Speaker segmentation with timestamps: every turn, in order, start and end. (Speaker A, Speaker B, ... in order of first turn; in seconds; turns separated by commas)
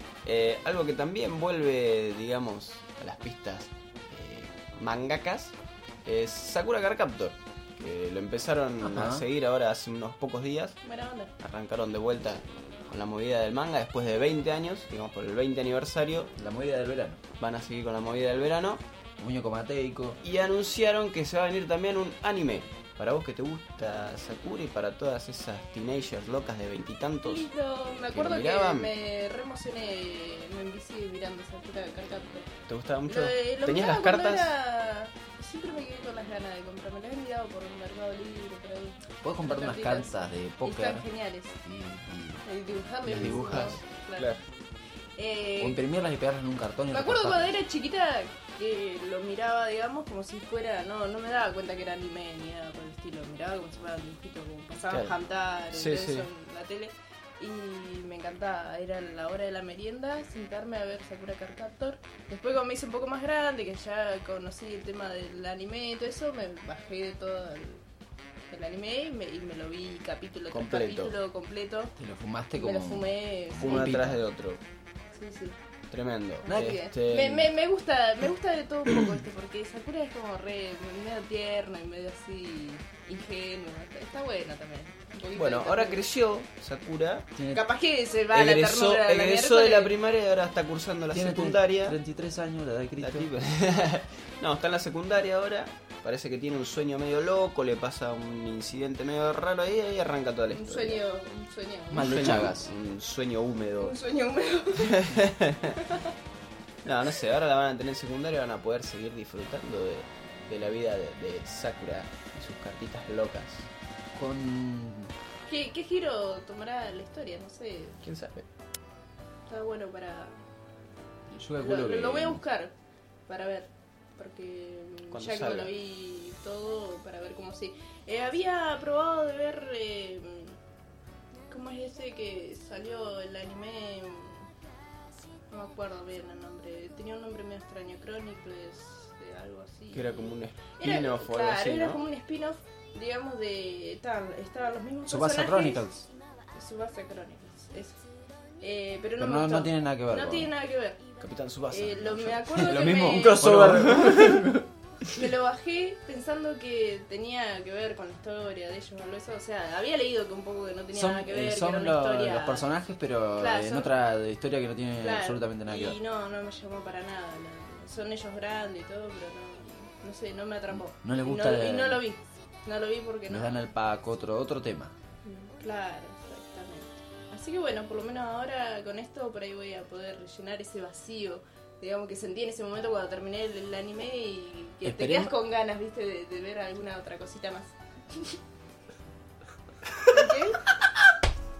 Speaker A: 0.2-5.5, Speaker A: 6.0-10.8, Speaker B: 8.8-9.2, Speaker C: 10.8-11.3, Speaker A: 11.4-16.3, Speaker B: 16.3-17.2, Speaker A: 17.4-18.8, Speaker B: 19.2-20.2, Speaker A: 20.2-27.5, Speaker C: 27.2-32.5, Speaker A: 28.1-28.9, Speaker A: 32.7-34.5, Speaker C: 33.1-41.6, Speaker B: 39.2-41.0, Speaker B: 41.6-42.4, Speaker C: 42.4-44.3, Speaker B: 43.0-43.7, Speaker A: 43.0-44.4, Speaker C: 45.2-45.8, Speaker B: 45.6-47.5, Speaker C: 46.9-67.8, Speaker A: 55.7-56.3, Speaker C: 68.5-71.9, Speaker A: 70.5-71.1, Speaker B: 72.0-74.2, Speaker C: 72.6-74.0, Speaker A: 73.6-74.6, Speaker C: 75.1-75.5, Speaker A: 75.9-77.5, Speaker C: 76.4-86.0, Speaker A: 85.3-87.3, Speaker B: 87.3-87.6, Speaker C: 87.5-89.9, Speaker A: 88.3-92.0, Speaker B: 91.1-93.3, Speaker A: 93.0-101.0, Speaker C: 100.5-102.4, Speaker B: 101.9-102.7, Speaker A: 102.0-104.0, Speaker C: 103.8-105.1, Speaker A: 104.8-105.8, Speaker C: 105.8-106.1, Speaker A: 106.8-113.7, Speaker B: 114.1-115.1, Speaker C: 115.5-118.0, Speaker A: 118.0-118.5, Speaker C: 119.5-120.4, Speaker B: 121.3-122.4, Speaker C: 121.6-122.7, Speaker C: 123.3-130.6, Speaker A: 125.1-125.7, Speaker C: 131.5-134.5, Speaker C: 135.5-145.9, Speaker A: 139.9-142.0, Speaker B: 145.1-146.1, Speaker C: 146.5-148.0, Speaker C: 148.6-151.0, Speaker B: 149.2-150.5, Speaker A: 151.2-154.6, Speaker C: 151.7-153.4, Speaker B: 152.6-154.6, Speaker C: 155.1-162.7, Speaker B: 160.9-166.0, Speaker C: 163.3-163.9, Speaker C: 165.0-173.6, Speaker B: 170.9-172.0, Speaker B: 173.3-174.9, Speaker C: 175.2-188.3, Speaker B: 184.8-185.3, Speaker C: 190.1-190.6